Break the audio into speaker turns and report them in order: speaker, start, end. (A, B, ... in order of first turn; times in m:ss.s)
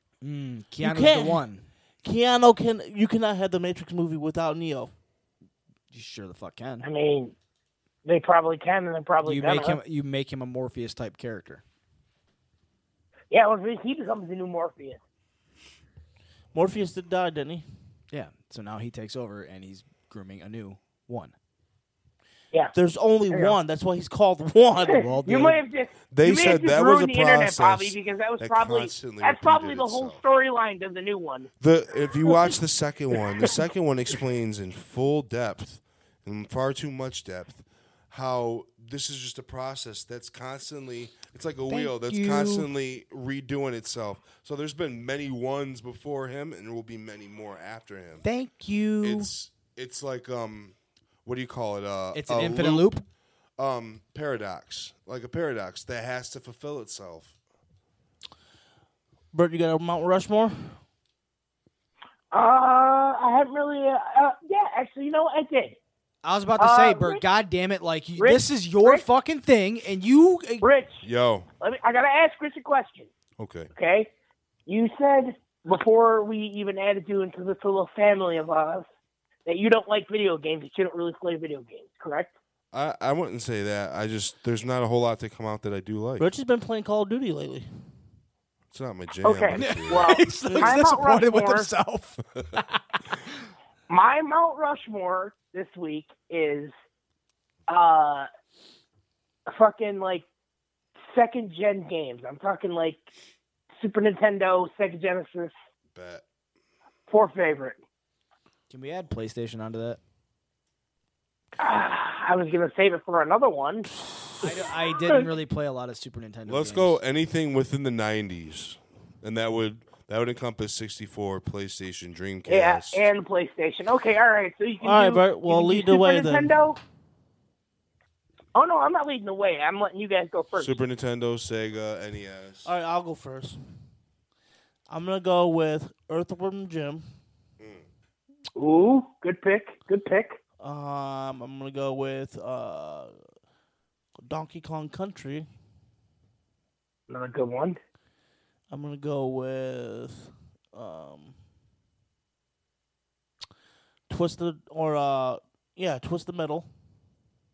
0:00.2-0:01.6 A
0:00.8-0:01.4 B
0:02.0-0:04.9 B
0:05.9-0:06.8 A
0:06.8-0:07.3 C
0:08.0-0:09.8 C
0:09.2-0:11.6 A
0:13.3-0:15.0 C
0:16.5-0:17.6 B
0:18.1-0:21.3 A
0:22.7-0:25.1 B
0:23.3-0:23.6 C
0:24.9-0:31.5 C
0:25.0-0:25.6 A
0:26.1-0:30.2 D
0:31.6-0:48.2 D
0:41.7-0:42.7 A
0:48.2-0:49.3 A
0:49.0-0:52.9 D
0:52.1-0:53.0 A
0:53.6-0:57.3 D
0:59.3-1:00.8 B
1:02.3-1:05.8 C
1:06.2-1:10.6 A
1:06.6-1:07.2 C
1:08.2-1:09.0 C
1:10.6-1:11.0 C
1:11.0-1:11.5 D
1:11.6-1:13.1 C
1:13.4-1:13.7 D
1:13.7-1:14.1 C
1:14.7-1:18.8 C
1:19.4-1:22.3 C
1:22.7-1:26.3 D
1:26.2-1:27.7 B
1:28.7-1:30.2 D
1:29.2-1:31.7 C
1:29.5-1:32.6 A
1:30.4-1:30.8 B
1:33.9-1:36.7 C
1:37.7-1:38.3 C
1:39.5-1:40.2 C
1:41.0-1:43.0 C
1:43.8-1:45.5 C
1:45.9-1:46.2 D
1:47.1-1:47.8 C
1:48.7-1:50.0 A
1:51.6-1:53.9 C
1:54.4-1:57.0 A
1:56.5-2:03.0 D
2:02.4-2:06.8 C
2:04.8-2:06.6 B
2:08.5-2:10.8 C
2:10.6-2:12.7 D
2:12.6-2:13.6 B
2:14.9-2:17.0 B
2:17.6-2:17.8 D
2:18.6-2:20.4 C
2:20.6-2:23.2 B
2:24.2-2:25.5 B
2:27.1-2:27.8 C
2:28.7-2:31.3 B
2:34.1-2:36.7 B